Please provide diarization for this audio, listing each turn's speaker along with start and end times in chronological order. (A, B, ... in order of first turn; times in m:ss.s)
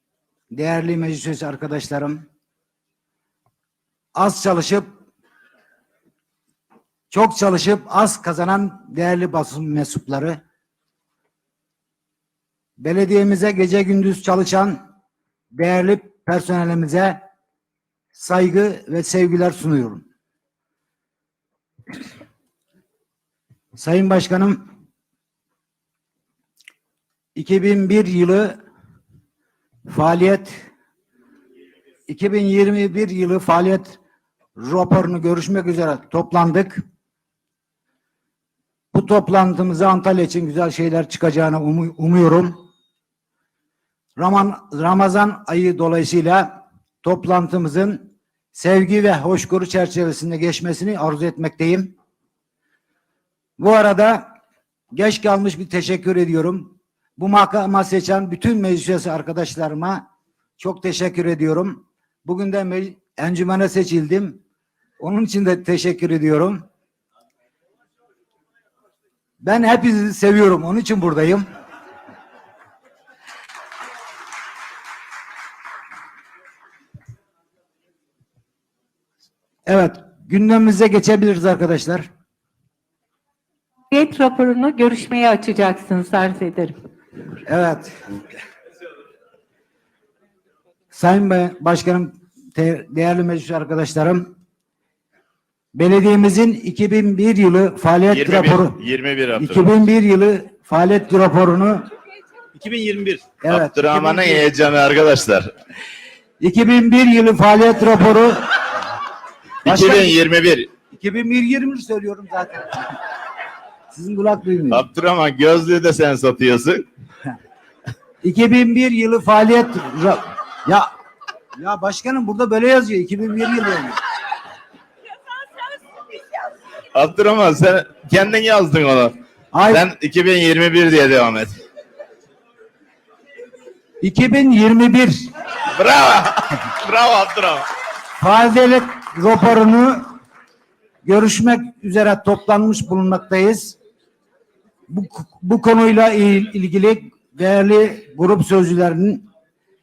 0:00.5-0:02.2 A
0:04.1-0:04.9 A
0:07.1-0:10.4 A
0:12.8-0:14.8 A
0:15.5-0:17.2 A
0:18.1-0:20.0 A
0:23.7-0:24.6 A
0:27.3-0:28.6 A
0:29.9-0:30.6 A
0:32.1-0:34.0 A
0:34.6-0:36.8 A
0:38.9-0:42.6 A
0:44.2-0:51.9 A
0:53.6-0:54.3 A
0:54.9-1:00.0 A
1:00.6-1:04.4 A
1:05.0-1:06.6 A
1:09.4-1:11.4 A
1:19.7-1:22.1 A
1:23.9-1:26.7 B
1:27.4-1:28.0 A
1:30.9-1:34.3 A
1:35.7-1:38.8 A
1:38.1-1:39.6 C
1:39.3-1:41.8 A
1:42.6-1:45.5 C
1:43.4-1:44.5 A
1:46.4-1:48.4 A
1:49.6-1:50.7 C
1:49.6-1:50.2 A
1:50.9-1:52.9 A
1:53.9-1:54.8 A
1:54.7-1:56.8 C
1:58.2-2:00.9 A
2:01.6-2:04.0 A
2:06.9-2:11.6 C
2:09.5-2:09.9 A
2:14.0-2:15.3 A
2:15.8-2:17.6 C
2:18.2-2:20.1 A
2:21.0-2:23.8 A
2:24.9-2:29.2 A